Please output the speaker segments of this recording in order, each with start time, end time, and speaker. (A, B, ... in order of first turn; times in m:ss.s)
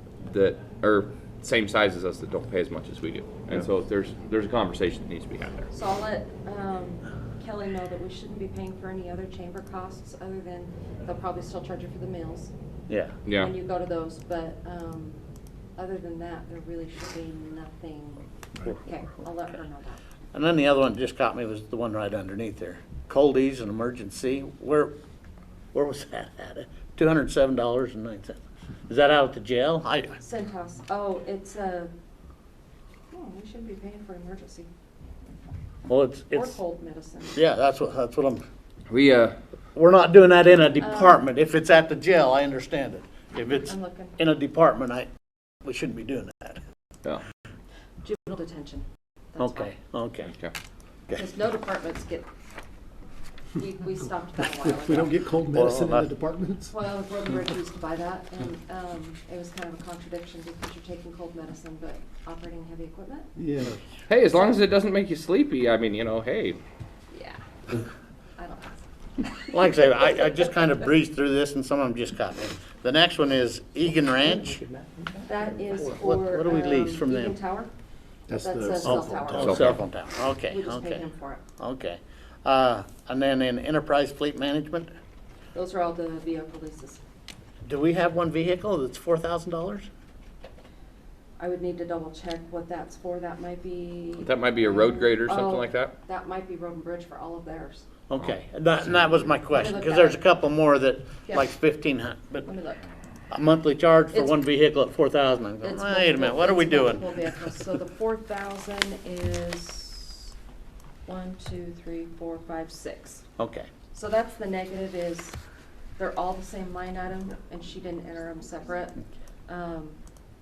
0:00.2-0:05.7 A
0:05.7-0:12.5 B
0:12.9-0:13.2 C
0:13.2-0:13.5 A
0:13.3-0:15.2 B
0:15.8-0:18.2 B
0:18.8-0:20.0 B
0:20.3-0:24.9 C
0:25.7-0:30.2 C
0:30.2-0:31.9 B
0:33.1-0:34.7 B
0:35.9-0:36.6 C
0:36.3-0:37.4 B
0:37.3-0:38.4 C
0:38.9-0:39.4 A
0:39.7-0:45.1 C
0:40.8-0:41.2 B
0:43.6-0:44.2 B
0:45.6-0:46.6 C
0:48.0-0:49.7 B
0:49.4-0:50.3 C
0:50.2-0:50.5 A
0:51.1-0:52.3 B
0:53.5-0:55.3 B
0:54.6-0:56.7 D
0:55.5-0:56.1 C
0:56.7-1:03.3 B
1:03.4-1:03.8 D
1:04.1-1:06.6 A
1:07.1-1:07.4 B
1:08.4-1:09.4 B
1:09.5-1:14.6 C
1:15.2-1:17.7 B
1:15.8-1:17.4 C
1:18.3-1:19.8 D
1:18.4-1:19.5 B
1:18.8-1:24.9 C
1:19.4-1:19.8 A
1:20.4-1:21.4 B
1:25.5-1:27.0 B
1:27.6-1:29.9 C
1:31.4-1:37.9 B
1:34.2-1:35.9 A
1:38.1-1:42.5 C
1:39.5-1:40.2 B
1:42.4-1:42.8 B
1:43.3-1:47.8 C
1:44.1-1:44.4 B
1:45.6-1:50.3 B
1:51.0-1:53.2 B
1:53.4-1:53.7 C
1:53.9-1:55.4 B
1:56.0-2:00.0 B